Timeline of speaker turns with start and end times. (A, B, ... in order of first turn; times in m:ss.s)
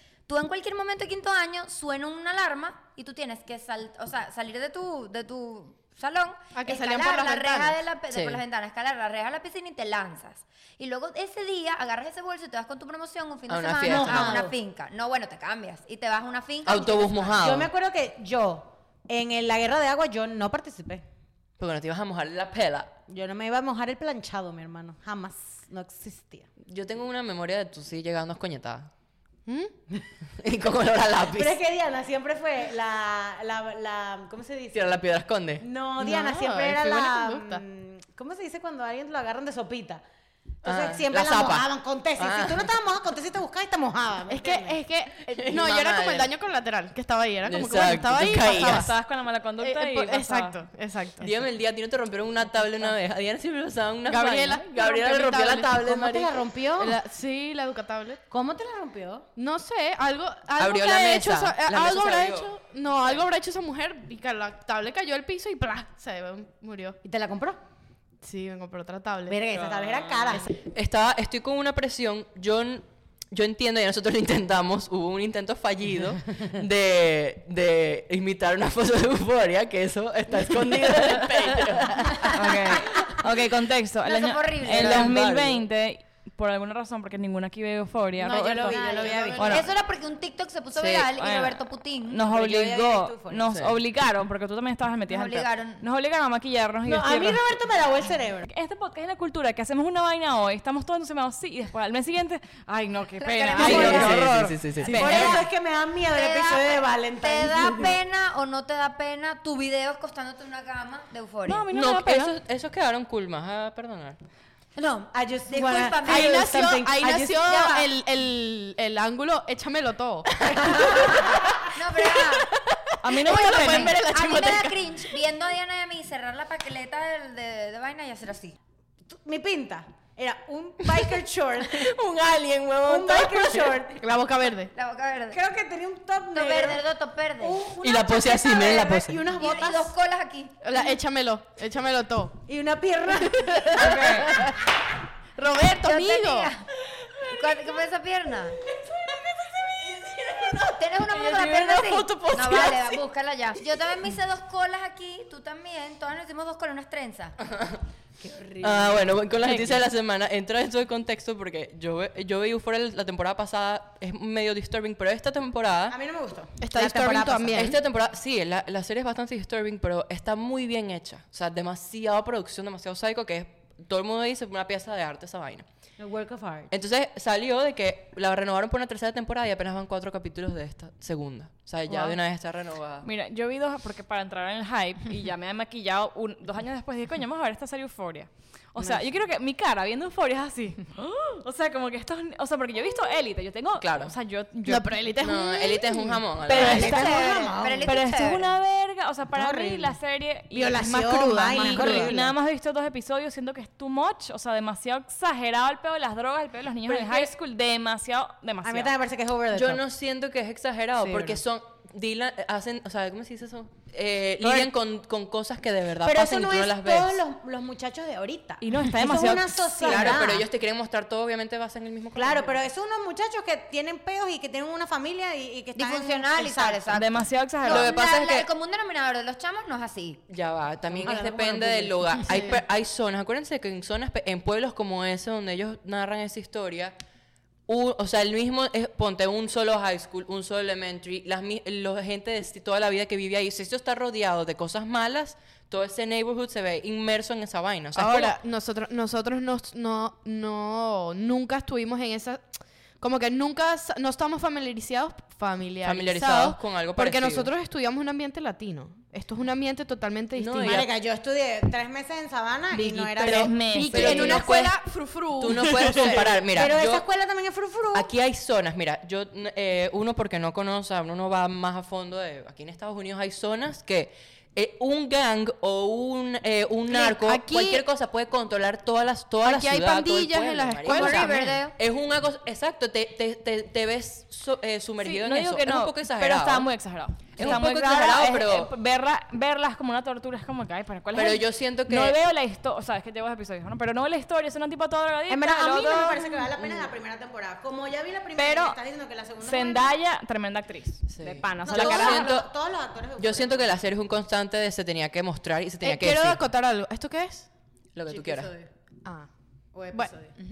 0:00.3-0:17.5 A
0:06.5-0:07.8 B
0:08.1-0:08.4 C
0:13.5-0:14.4 C
0:13.8-0:14.5 D
0:16.6-0:17.7 C
0:17.4-0:21.0 D
0:21.6-0:22.9 C
0:23.1-0:26.5 D
0:26.6-0:28.9 C
0:29.5-0:29.7 B
0:30.4-0:31.6 C
0:31.3-0:34.9 D
0:34.7-0:35.6 C
0:35.6-0:40.0 D
0:36.0-0:37.6 B
0:40.6-0:42.7 C
0:40.6-0:44.8 D
0:44.3-0:48.9 B
0:45.3-0:46.3 C
0:47.4-0:48.9 C
0:48.4-0:50.6 E
0:49.6-0:51.3 B
0:51.2-0:56.4 C
0:54.1-0:55.8 B
0:55.7-0:57.0 D
0:56.8-0:58.2 B
0:58.3-0:59.3 D
0:59.4-1:07.0 B
1:00.6-1:02.5 C
1:07.0-1:07.6 D
1:08.2-1:09.4 B
1:09.3-1:10.5 D
1:09.5-1:23.1 C
1:22.3-1:28.8 E
1:24.0-1:25.1 A
1:24.6-1:25.6 C
1:28.2-1:29.6 D
1:28.6-1:29.7 B
1:28.8-1:32.2 A
1:29.3-1:29.7 E
1:30.7-1:31.1 C
1:31.2-1:37.6 E
1:32.3-1:33.5 D
1:35.1-1:35.8 A
1:36.8-1:38.5 D
1:38.5-1:45.4 E
1:43.2-1:44.2 A
1:43.6-1:48.0 D
1:43.6-1:45.4 C
1:44.9-1:45.4 A
1:46.1-1:51.6 A
1:51.4-1:52.3 E
1:51.7-1:54.2 C
1:54.8-1:57.7 D
1:55.5-1:56.5 A
1:56.0-2:05.0 B
1:57.4-1:57.9 A
2:00.6-2:01.2 D
2:00.7-2:02.5 A
2:03.0-2:04.0 E
2:03.5-2:08.6 A
2:09.1-2:11.9 D
2:10.9-2:13.8 C
2:12.8-2:14.0 D
2:14.0-2:14.7 B
2:14.7-2:15.4 A
2:15.3-2:16.8 D
2:16.3-2:17.6 A
2:17.4-2:19.9 D
2:17.8-2:19.2 C
2:18.5-2:20.5 A
2:20.6-2:22.4 B
2:22.5-2:24.4 D
2:23.3-2:24.6 B
2:23.8-2:24.1 A
2:25.4-2:26.5 B
2:25.8-2:26.6 A
2:27.0-2:27.6 C
2:27.3-2:28.6 A
2:28.8-2:33.0 C
2:30.7-2:37.4 A
2:37.5-2:37.8 C
2:38.2-2:39.1 D
2:38.6-2:46.0 C
2:45.9-2:47.7 D
2:46.6-2:47.8 B
2:47.5-2:55.6 C
2:56.0-2:56.7 D
2:56.7-3:03.1 C
3:01.9-3:02.2 E
3:03.0-3:15.0 E
3:13.8-3:14.1 C
3:14.6-3:17.0 B
3:15.2-3:16.9 C
3:16.4-3:17.9 D
3:16.5-3:17.1 E
3:16.5-3:18.5 A
3:17.8-3:21.0 E
3:19.3-3:20.0 D
3:20.5-3:22.3 D
3:20.8-3:22.1 B
3:21.5-3:28.9 E
3:28.6-3:29.8 D
3:29.5-3:37.2 C
3:31.0-3:31.4 D
3:34.4-3:34.7 D
3:36.0-3:40.4 D
3:38.6-3:40.2 E
3:39.8-3:42.7 C
3:42.2-3:47.0 D
3:45.8-3:50.2 A
3:46.9-3:47.9 E
3:47.6-3:48.4 C
3:50.3-3:57.0 C
3:50.9-3:52.5 D
3:52.2-3:52.5 B
3:57.7-4:08.4 C
4:07.9-4:20.8 B
4:15.8-4:17.5 C
4:20.4-4:20.9 C
4:20.6-4:24.4 D
4:22.7-4:24.5 E
4:23.2-4:26.3 B
4:23.9-4:24.8 C
4:25.4-4:27.0 C
4:25.7-4:28.1 D
4:27.9-4:46.7 C
4:36.9-4:37.8 B
4:39.4-4:41.6 B
4:40.8-4:41.8 A
4:45.0-4:56.2 E
4:47.4-4:48.7 C
4:51.1-4:52.2 C
4:55.3-4:59.9 D
4:56.6-4:56.9 C
4:58.3-4:58.8 E
4:59.4-5:02.3 E
5:01.1-5:02.5 C
5:01.6-5:03.7 D
5:03.2-5:06.4 C
5:05.8-5:07.5 B
5:07.9-5:08.5 C
5:08.1-5:08.7 D
5:09.0-5:09.3 B
5:09.7-5:10.3 D